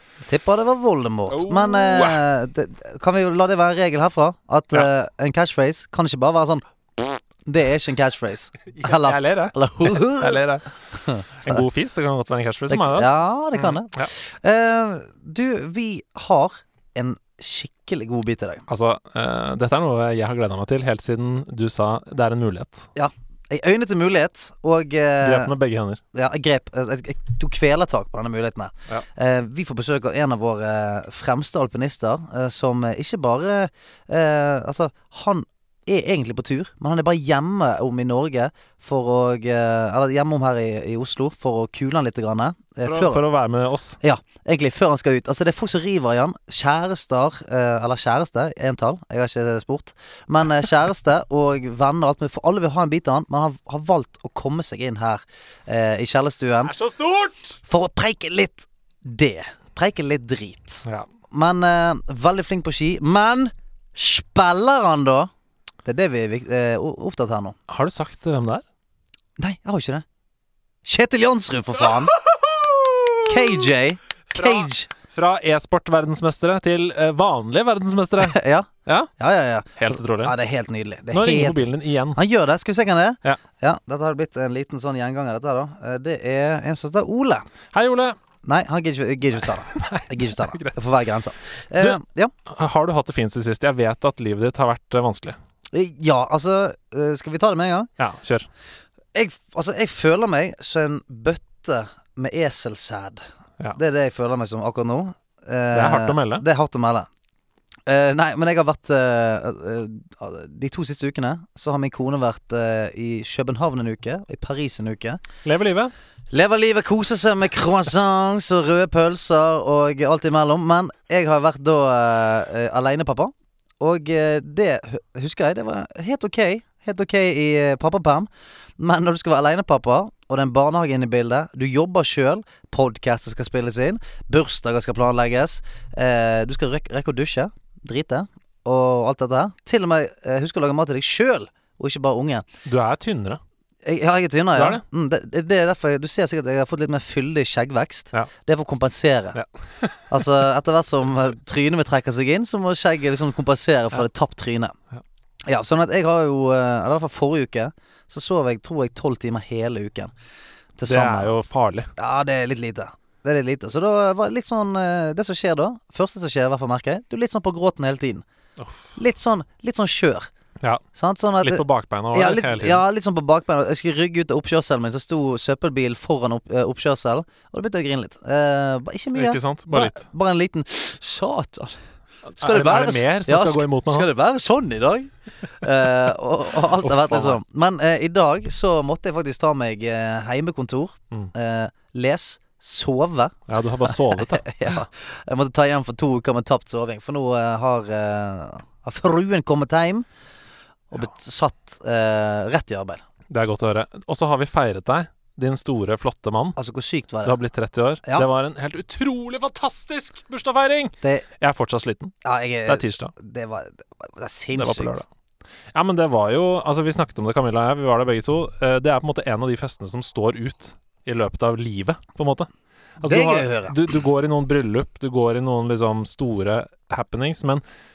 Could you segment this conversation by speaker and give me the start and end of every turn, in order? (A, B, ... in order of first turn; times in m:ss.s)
0:00.2-0:10.4 A
0:01.3-0:02.2 B
0:08.7-0:10.7 B
0:10.9-0:11.6 A
0:11.4-0:14.1 B
0:12.7-0:18.6 A
0:18.7-0:22.9 B
0:23.0-0:25.5 A
0:25.2-0:26.0 B
0:26.1-0:43.2 A
0:42.8-0:44.0 B
0:44.0-0:56.7 A
0:56.6-0:57.6 B
0:57.7-1:05.3 A
1:05.8-1:07.6 A
1:07.7-1:08.6 B
1:09.4-1:10.0 A
1:10.8-1:12.1 A
1:12.2-1:13.3 B
1:13.3-1:14.9 A
1:14.3-1:19.1 B
1:18.2-1:27.4 A
1:19.8-1:20.3 B
1:21.1-1:22.2 B
1:27.7-1:28.2 B
1:28.4-1:32.3 A
1:29.7-1:30.8 B
1:31.8-1:35.4 B
1:35.7-1:37.9 A
1:38.0-1:38.5 B
1:39.1-1:43.2 A
1:43.7-1:47.1 A
1:45.7-1:46.4 B
1:47.9-1:55.2 A
1:55.4-1:55.9 B
1:56.3-2:22.4 A
2:22.6-2:23.4 B
2:23.8-2:29.4 A
2:24.5-2:24.8 B
2:29.3-2:30.0 B
2:30.1-2:34.8 A
2:35.4-2:40.1 A
2:40.8-2:41.4 A
2:40.8-2:41.9 B
2:42.0-2:48.2 A
2:48.6-2:48.9 B
2:49.0-2:50.3 A
2:50.9-3:01.8 A
2:51.4-2:52.8 B
2:59.1-3:00.0 B
3:02.2-3:04.1 B
3:02.4-3:20.0 A
3:06.8-3:07.4 B
3:13.5-3:14.8 B
3:20.9-3:23.0 A
3:23.3-3:26.6 B
3:26.6-3:27.4 A
3:27.2-3:32.1 B
3:32.2-3:35.0 A
3:32.7-3:33.1 B
3:34.6-3:35.0 B
3:35.7-3:42.5 B
3:43.0-3:47.6 B
3:43.0-3:43.8 A